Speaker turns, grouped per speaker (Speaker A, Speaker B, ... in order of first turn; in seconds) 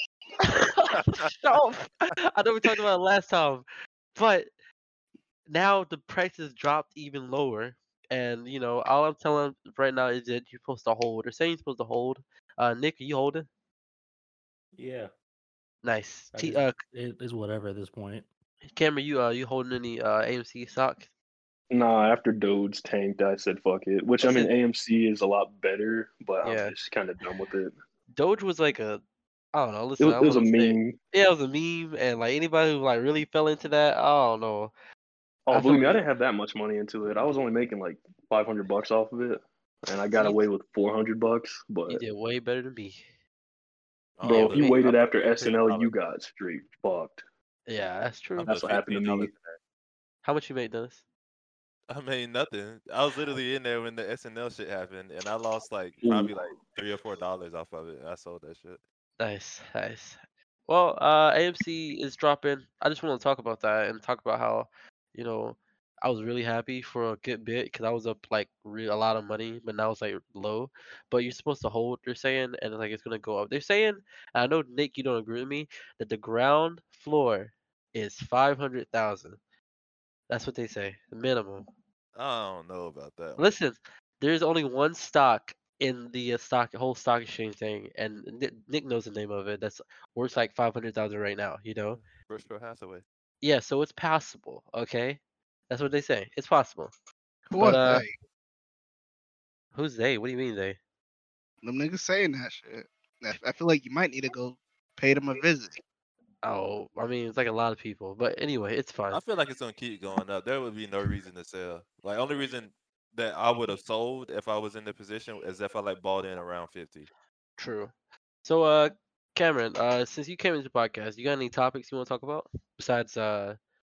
Speaker A: 0.4-4.5, 5.5-13.5, 15.8-16.8, 18.6-21.1, 24.2-24.5, 26.4-26.7, 28.1-29.0, 29.5-34.7, 35.5-36.0, 40.1-40.4, 41.9-43.0, 44.2-44.9, 47.7-48.6, 50.2-51.0, 59.2-79.4, 80.3-81.6, 83.4-92.0, 93.4-96.9, 97.5-98.0, 99.7-100.8, 106.4-109.2, 117.6-117.9, 118.4-123.6
Speaker B: 14.8-15.1, 16.3-18.2
Speaker C: 21.7-27.7, 30.0-31.0, 35.5-42.0, 44.2-47.2, 48.4-49.3, 56.0-56.4
Speaker D: 44.2-45.9, 48.4-49.6, 51.9-58.8, 82.1-83.4, 92.0-93.0, 109.1-117.1
Speaker E: 97.5-98.2, 101.6-105.8